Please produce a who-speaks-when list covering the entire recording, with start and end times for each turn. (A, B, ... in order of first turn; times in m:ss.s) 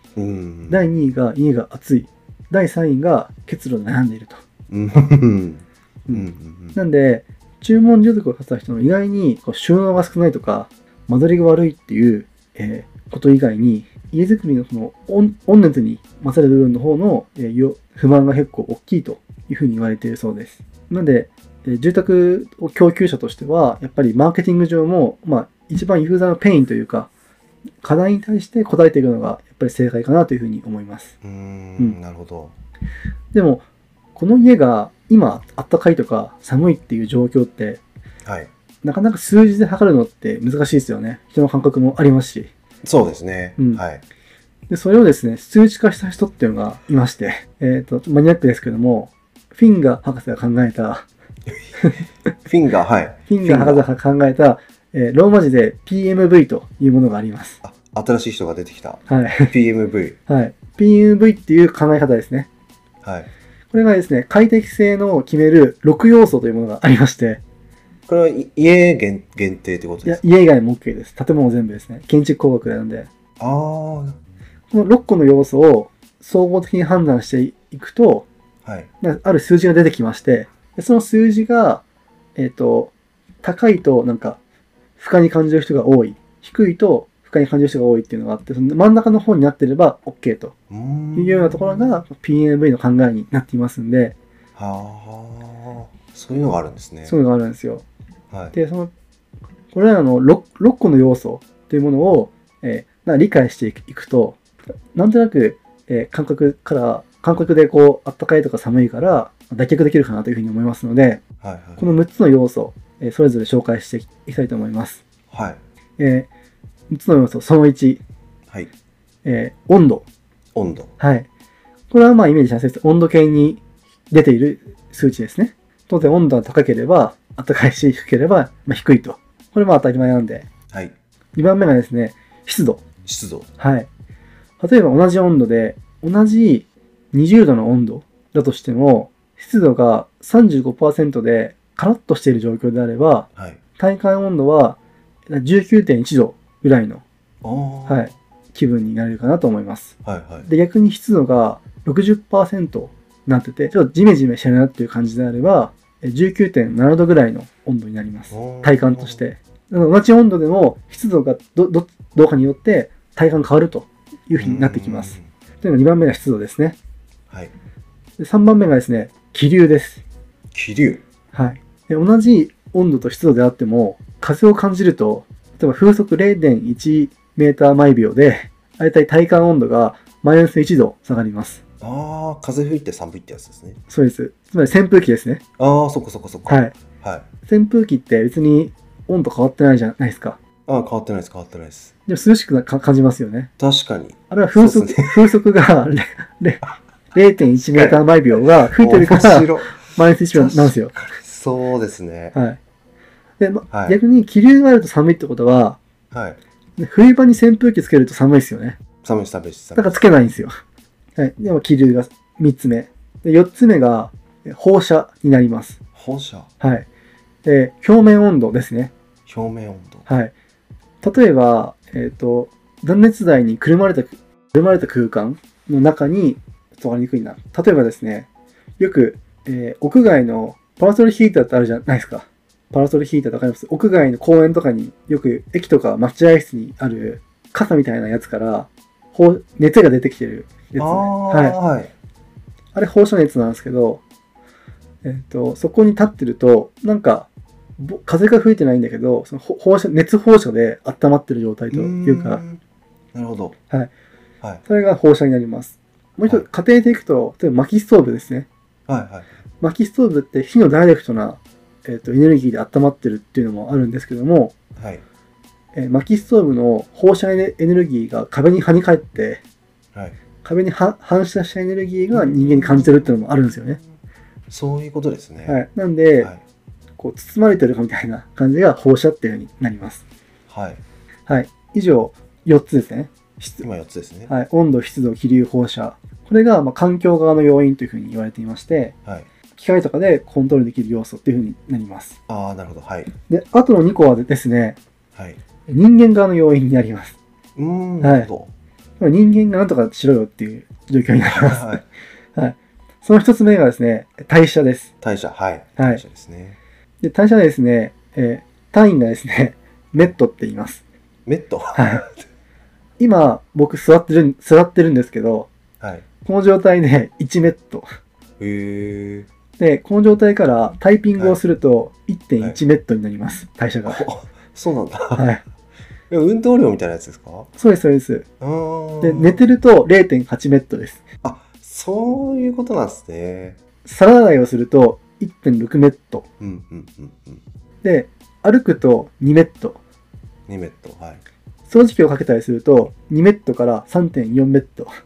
0:00.2-0:00.8 A
0:00.7-0:04.4 B
0:04.7-0:06.8 A
0:06.1-0:27.1 B
0:27.8-0:31.1 B
0:31.2-0:32.5 A
0:33.3-0:33.6 B
0:34.2-0:37.8 B
0:38.2-0:38.5 A
0:38.8-0:42.5 B
0:42.8-0:44.0 A
0:44.7-0:51.1 B
0:52.5-0:53.8 A
0:53.3-0:57.6 B
0:57.6-1:00.2 A
0:59.1-0:59.5 B
1:00.3-1:02.5 B
1:03.0-1:03.3 A
1:03.7-1:07.4 B
1:08.1-1:10.2 A
1:10.0-1:13.1 B
1:13.4-1:14.2 A
1:14.7-1:18.3 B
1:19.0-1:21.8 B
1:22.4-1:24.4 B
1:25.0-1:30.5 B
1:30.7-1:32.0 A
1:31.1-1:34.2 B
1:34.6-1:37.2 A
1:37.1-1:37.8 B
1:38.5-1:38.9 B
1:39.7-1:44.4 B
1:44.9-1:51.2 B
1:51.4-1:51.9 A
1:51.8-1:55.0 B
1:55.3-1:55.6 A
1:56.0-1:56.3 B
1:56.9-1:58.0 B
1:59.2-2:00.1 B
2:00.6-2:00.9 A
2:01.0-2:01.3 B
2:01.9-2:10.5 B
2:11.4-2:12.8 B
2:13.0-2:13.5 A
2:13.6-2:13.9 B
2:14.6-2:24.8 B
2:25.3-2:27.0 B
2:27.4-2:28.1 A
2:27.9-2:46.8 B
2:30.0-2:30.5 A
2:38.3-2:39.2 A
2:44.4-2:45.2 A
2:48.2-2:50.0 B
2:50.5-2:51.0 A
2:51.3-3:01.6 B
3:01.8-3:03.8 A
3:03.9-3:05.4 B
3:05.6-3:07.3 A
3:06.5-3:06.8 B
3:07.5-3:10.4 B
3:10.7-3:11.9 A
3:12.1-3:13.5 B
3:13.6-3:15.4 A
3:14.3-3:16.6 B
3:17.1-3:20.9 B
3:17.7-3:18.0 A
3:18.7-3:22.4 A
3:22.3-3:22.6 B
3:23.4-3:25.8 B
3:23.7-3:24.0 A
3:26.1-3:26.4 A
3:26.8-3:28.8 B
3:29.0-3:30.1 A
3:29.8-3:30.5 B
3:31.2-3:35.8 B
3:36.0-3:36.5 A
3:36.6-3:36.9 B
3:37.4-3:38.9 B
3:39.3-3:40.1 A
3:40.1-3:40.3 B
3:41.0-3:48.3 B
3:48.8-4:01.6 B
4:00.8-4:01.9 A
4:02.8-4:04.0 B
4:05.0-4:12.4 B
4:11.7-4:12.6 A
4:13.1-4:13.6 A
4:14.7-4:18.5 B
4:18.9-4:19.3 A
4:19.6-4:24.6 B
4:24.8-4:25.0 A
4:25.8-4:29.4 B
4:30.4-4:33.8 B
4:32.1-4:33.1 A
4:34.5-4:35.6 A
4:35.5-4:36.3 B
4:37.0-4:40.0 B
4:40.5-4:40.8 A
4:41.3-4:43.7 B
4:43.6-4:44.3 A
4:44.3-4:49.0 B
4:49.6-4:52.2 B
4:52.3-4:53.1 A
4:53.3-4:54.8 B
4:55.2-4:55.4 A
4:55.7-4:57.2 B
4:57.6-4:58.5 A
4:58.0-4:58.3 B
4:59.0-5:01.8 B
5:01.3-5:01.8 A
5:02.4-5:04.9 B
5:05.0-5:06.6 A
5:07.0-5:10.8 B
5:11.3-5:12.1 A
5:11.8-5:12.1 B
5:13.0-5:15.5 B
5:15.8-5:16.0 A
5:16.2-5:17.9 B
5:18.4-5:19.3 A
5:19.6-5:24.0 B
5:23.9-5:25.3 A
5:25.2-5:25.4 B
5:26.1-5:27.5 A
5:27.6-5:28.3 B
5:28.4-5:29.5 A
5:29.0-5:31.0 B
5:31.2-5:33.6 A
5:33.8-5:36.3 B
5:36.4-5:37.4 A
5:37.8-5:39.8 B
5:40.5-5:41.2 A
5:41.7-5:44.9 B